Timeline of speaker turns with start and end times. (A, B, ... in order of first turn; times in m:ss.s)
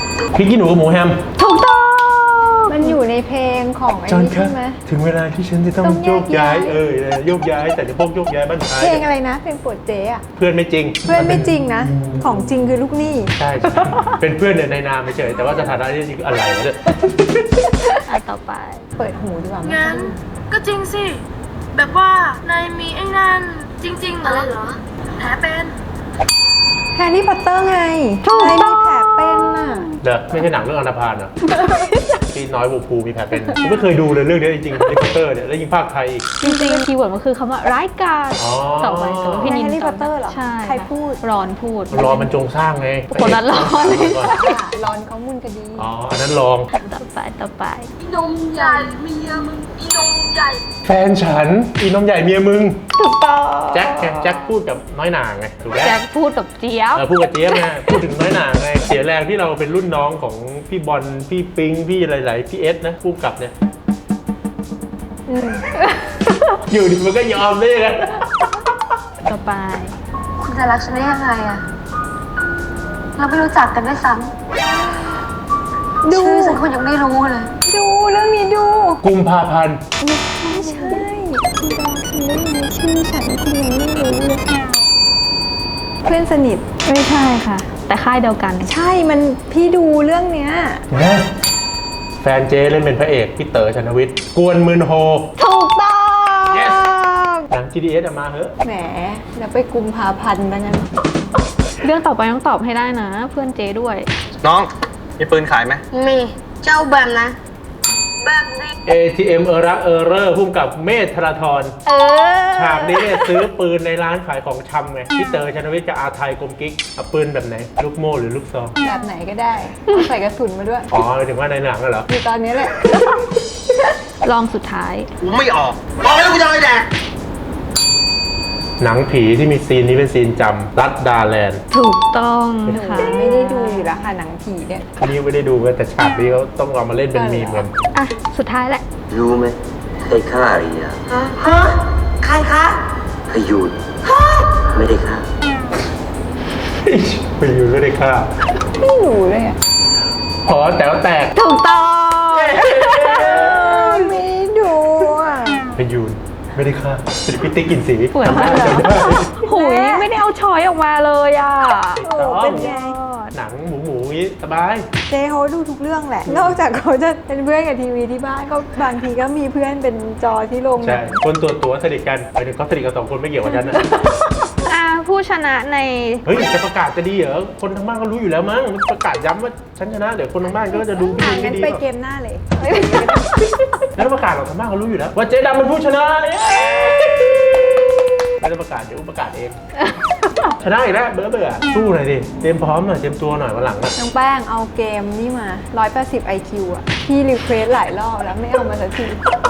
0:00.3-0:01.2 A
0:01.4-0:03.0 B
0:02.7-0:04.8 C
0:04.1-0:09.0 A
0:05.8-0:06.8 C
0:08.8-0:10.2 C
0:10.4-0:12.8 A
0:11.0-0:14.1 C
0:13.4-0:17.7 A
0:18.1-0:18.8 B
0:19.0-0:20.2 C
0:19.6-0:21.2 D
0:21.7-0:25.8 D
0:26.9-0:29.9 C
0:28.2-0:30.0 B
0:30.0-0:31.4 A
0:31.5-0:32.0 C
0:32.3-0:36.3 A
0:36.4-0:42.3 B
0:36.4-0:36.8 C
0:38.4-0:39.6 A
0:39.4-0:41.2 C
0:41.9-0:44.4 A
0:43.1-0:44.6 B
0:44.2-0:45.9 C
0:45.8-0:46.7 A
0:46.7-0:47.9 B
0:48.0-0:50.6 D
0:50.8-0:52.8 A
0:53.0-0:54.5 B
0:53.7-0:56.0 A
0:55.8-0:58.0 B
0:56.9-1:03.5 A
1:05.3-1:06.4 B
1:06.7-1:08.6 A
1:09.2-1:10.0 B
1:10.4-1:11.6 E
1:13.2-1:14.3 E
1:14.6-1:15.2 C
1:16.0-1:16.7 C
1:16.1-1:17.5 E
1:17.6-1:19.0 C
1:19.0-1:19.8 A
1:20.0-1:21.0 B
1:20.4-1:24.4 C
1:26.0-1:26.7 C
1:26.8-1:28.7 B
1:28.7-1:30.8 C
1:30.9-1:31.3 A
1:32.2-1:35.3 A
1:35.4-1:37.4 B
1:36.5-1:36.9 A
1:37.5-1:38.6 A
1:38.6-1:40.9 C
1:41.8-1:44.1 B
1:44.4-1:45.8 F
1:45.9-1:47.3 D
1:48.2-1:48.7 D
1:48.8-1:51.8 A
1:51.8-1:53.4 B
1:52.5-1:58.8 A
1:58.8-2:00.9 C
2:00.9-2:02.1 A
2:02.1-2:03.2 C
2:04.2-2:05.1 B
2:05.2-2:06.9 F
2:08.8-2:11.6 A
2:11.7-2:14.1 B
2:12.7-2:13.1 A
2:12.7-2:14.9 C
2:15.0-2:17.8 A
2:17.1-2:17.7 C
2:17.9-2:18.8 B
2:19.1-2:21.0 G
2:22.4-2:22.7 F
2:23.3-2:23.7 G
2:24.7-2:25.2 G
2:26.8-2:28.3 A
2:28.8-2:29.6 C
2:30.4-2:31.3 A
2:31.3-2:32.8 B
2:32.3-2:34.1 A
2:32.8-2:35.6 C
2:35.8-2:39.4 A
2:38.1-2:43.3 B
2:39.4-2:40.1 C
2:42.0-2:42.8 A
2:42.0-2:43.0 C
2:43.3-2:44.9 A
2:45.1-2:51.2 C
2:46.2-2:46.6 A
2:50.8-2:53.8 A
2:54.0-2:54.3 C
2:54.6-2:56.2 B
2:56.2-3:01.8 A
3:00.6-3:03.5 C
3:04.0-3:07.8 A
3:08.4-3:09.6 A
3:10.6-3:13.9 A
3:14.0-3:19.2 C